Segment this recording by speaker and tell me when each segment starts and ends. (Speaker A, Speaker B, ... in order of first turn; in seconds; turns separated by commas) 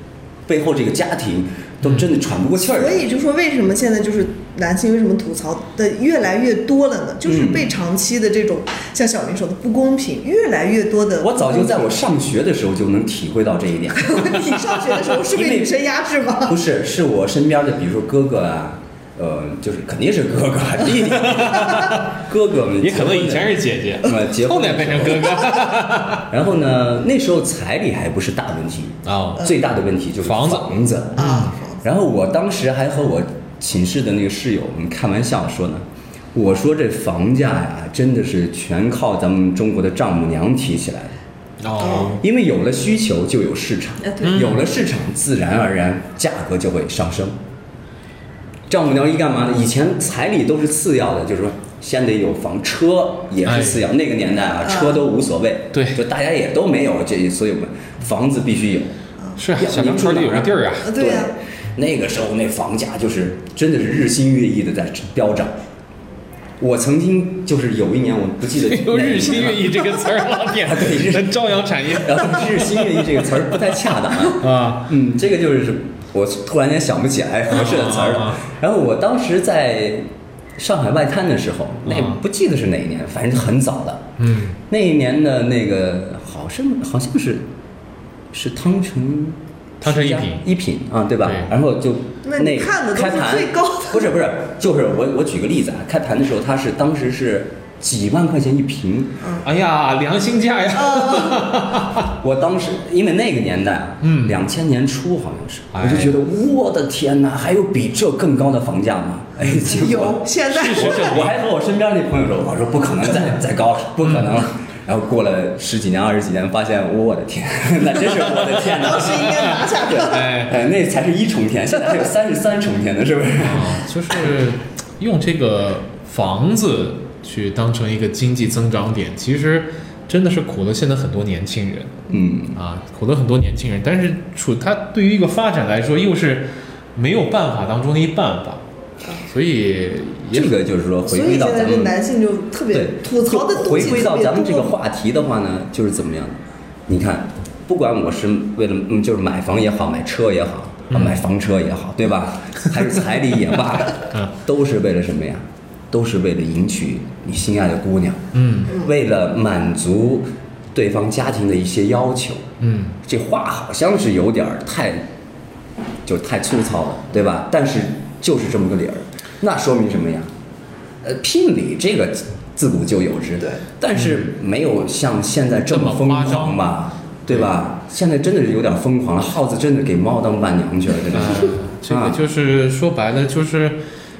Speaker A: 0.5-3.0, Speaker B: 2.6-11.9, Speaker A: 7.2-7.7, Speaker A: 11.2-14.5, Speaker B: 14.0-16.6, Speaker A: 15.2-15.8, Speaker A: 16.5-25.7, Speaker C: 21.1-22.1, Speaker C: 22.8-26.3, Speaker A: 26.2-41.1, Speaker C: 29.1-29.5, Speaker C: 30.2-31.6, Speaker B: 31.2-31.8, Speaker C: 41.6-42.2, Speaker B: 41.8-42.2, Speaker A: 42.1-47.4, Speaker B: 44.0-44.5, Speaker C: 44.2-44.7, Speaker A: 48.7-58.9, Speaker C: 53.5-53.9, Speaker B: 54.7-55.0, Speaker C: 55.7-56.0, Speaker C: 59.4-60.9, Speaker A: 59.5-65.5, Speaker B: 60.8-61.3, Speaker A: 66.6-80.0, Speaker C: 68.6-73.3, Speaker C: 74.3-74.9, Speaker C: 77.5-78.4, Speaker A: 80.6-84.0, Speaker C: 81.9-82.2, Speaker C: 84.2-84.6, Speaker A: 84.7-87.5, Speaker A: 88.3-99.2, Speaker C: 89.8-90.5, Speaker C: 91.2-91.5, Speaker B: 92.2-94.1, Speaker C: 99.4-102.1, Speaker B: 100.7-101.5, Speaker A: 102.0-123.8, Speaker C: 104.0-104.4, Speaker C: 105.7-106.2, Speaker C: 109.4-109.7, Speaker B: 109.6-111.2, Speaker C: 110.5-111.4, Speaker C: 118.3-120.5, Speaker B: 118.7-120.3, Speaker C: 123.4-138.6, Speaker A: 132.1-132.6, Speaker C: 139.2-140.5, Speaker A: 140.3-141.9, Speaker B: 141.0-144.7, Speaker A: 142.7-162.4, Speaker C: 150.9-151.2, Speaker C: 158.3-158.8, Speaker C: 162.6-163.0, Speaker A: 163.0-165.0, Speaker A: 166.1-170.3, Speaker A: 171.0-182.2, Speaker C: 174.0-174.2, Speaker C: 175.7-176.6, Speaker C: 181.1-183.8